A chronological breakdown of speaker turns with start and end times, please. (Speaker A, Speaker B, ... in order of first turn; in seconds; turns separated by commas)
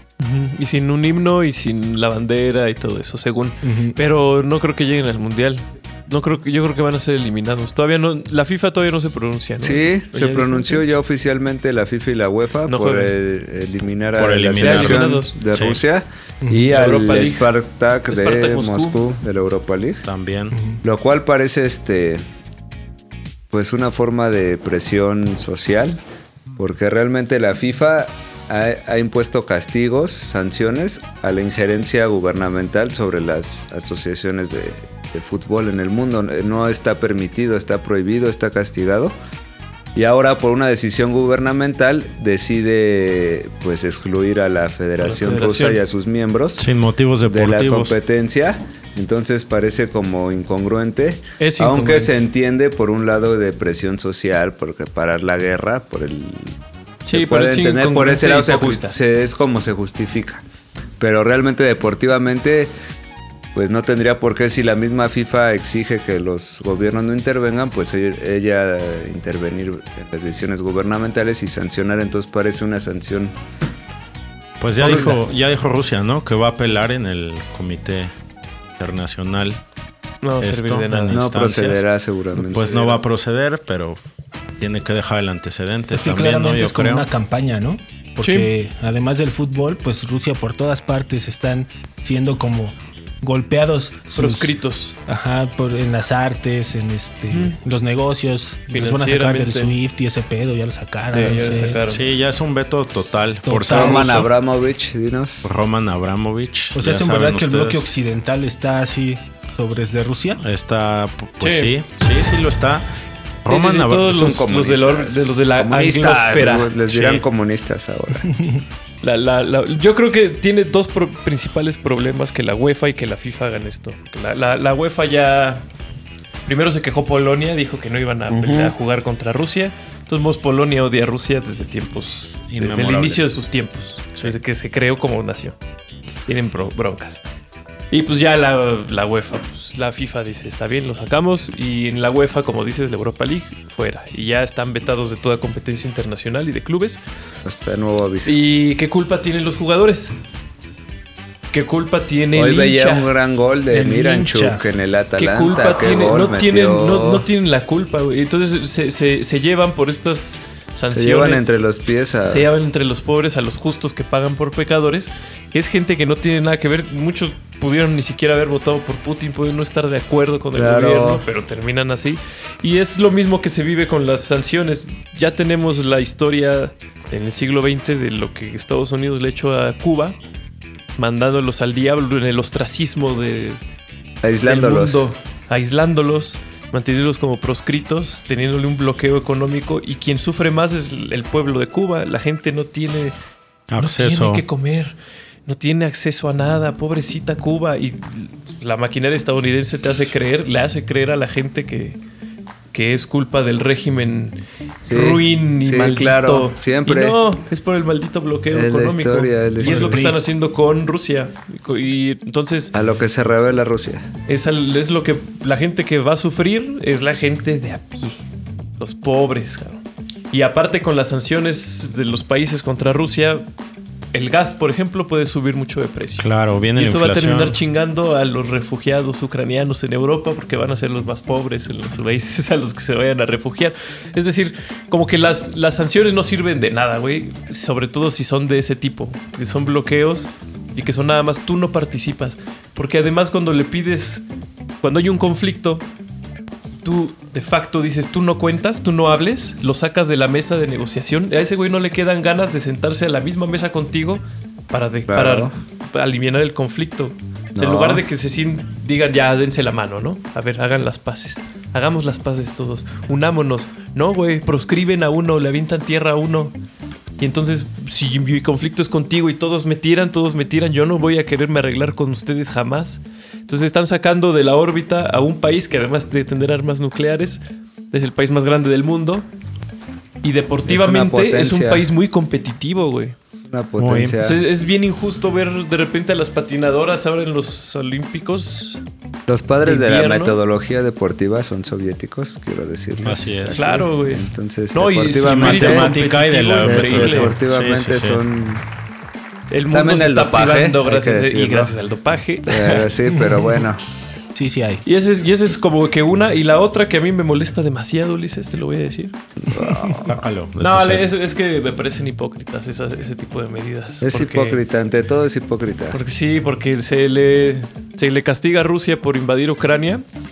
Speaker A: 0.2-10.8, Speaker B: 3.6-4.0, Speaker C: 9.6-20.0, Speaker A: 12.7-13.1, Speaker D: 14.2-15.8, Speaker A: 14.6-15.3, Speaker B: 16.4-16.7, Speaker A: 16.7-17.5, Speaker A: 18.1-19.0, Speaker D: 20.0-20.6, Speaker B: 20.5-20.8, Speaker C: 20.8-22.2, Speaker C: 23.5-26.0, Speaker C: 26.6-39.1, Speaker C: 39.9-46.6, Speaker A: 45.1-45.8, Speaker D: 46.6-48.0, Speaker C: 47.2-60.4, Speaker A: 51.4-52.1, Speaker A: 57.0-59.0, Speaker C: 61.0-62.7, Speaker C: 63.5-73.3, Speaker D: 74.6-78.1, Speaker C: 74.8-75.2, Speaker D: 78.7-79.6, Speaker A: 80.2-81.3, Speaker D: 80.4-84.0, Speaker C: 81.1-83.0, Speaker D: 84.6-87.1, Speaker B: 85.9-94.5, Speaker A: 88.2-88.5, Speaker A: 94.1-95.0, Speaker B: 95.0-101.8, Speaker A: 97.3-97.5, Speaker A: 98.7-99.8, Speaker A: 101.1-102.0, Speaker D: 101.9-104.3, Speaker B: 103.5-104.2, Speaker C: 103.7-105.5, Speaker D: 105.4-107.9, Speaker B: 106.7-110.4, Speaker D: 110.4-112.9, Speaker A: 111.4-111.7, Speaker D: 113.4-114.4, Speaker A: 113.5-116.8, Speaker C: 114.1-118.3, Speaker D: 116.9-117.2, Speaker B: 118.3-118.6, Speaker A: 119.0-125.7, Speaker A: 126.5-135.6, Speaker B: 128.3-128.7, Speaker D: 132.5-133.3, Speaker A: 136.3-137.2, Speaker A: 137.9-147.0, Speaker C: 147.4-148.3, Speaker A: 148.2-150.1, Speaker A: 151.5-153.1, Speaker C: 152.3-157.2, Speaker B: 153.7-154.6, Speaker A: 155.2-161.5, Speaker C: 160.9-162.5, Speaker A: 162.2-180.2, Speaker C: 170.5-171.2, Speaker A: 180.9-183.6, Speaker C: 184.2-185.0, Speaker A: 184.4-193.1, Speaker D: 193.7-194.4, Speaker A: 193.8-202.0, Speaker A: 202.7-212.7, Speaker C: 204.9-207.2, Speaker C: 208.5-210.1, Speaker B: 209.6-210.2, Speaker C: 212.7-214.1, Speaker A: 214.3-218.2, Speaker A: 218.8-223.4, Speaker A: 224.1-244.2, Speaker D: 226.2-227.6, Speaker A: 244.8-245.8, Speaker A: 246.8-266.6, Speaker C: 255.1-255.5, Speaker C: 257.5-258.0, Speaker A: 267.2-279.3, Speaker A: 280.2-283.2, Speaker C: 280.6-281.8, Speaker C: 283.4-284.4, Speaker D: 283.8-284.2, Speaker A: 284.2-288.8, Speaker C: 289.3-295.9, Speaker A: 289.6-290.4, Speaker D: 293.0-293.6, Speaker A: 293.5-297.4, Speaker D: 295.1-298.2, Speaker C: 296.6-298.6, Speaker A: 299.5-302.9, Speaker C: 299.7-301.7, Speaker C: 302.4-304.3, Speaker B: 303.1-303.5, Speaker B: 304.3-304.8, Speaker A: 304.8-309.1, Speaker C: 309.4-310.2, Speaker D: 310.0-311.1, Speaker A: 310.6-314.6, Speaker C: 314.0-316.0, Speaker A: 315.9-320.0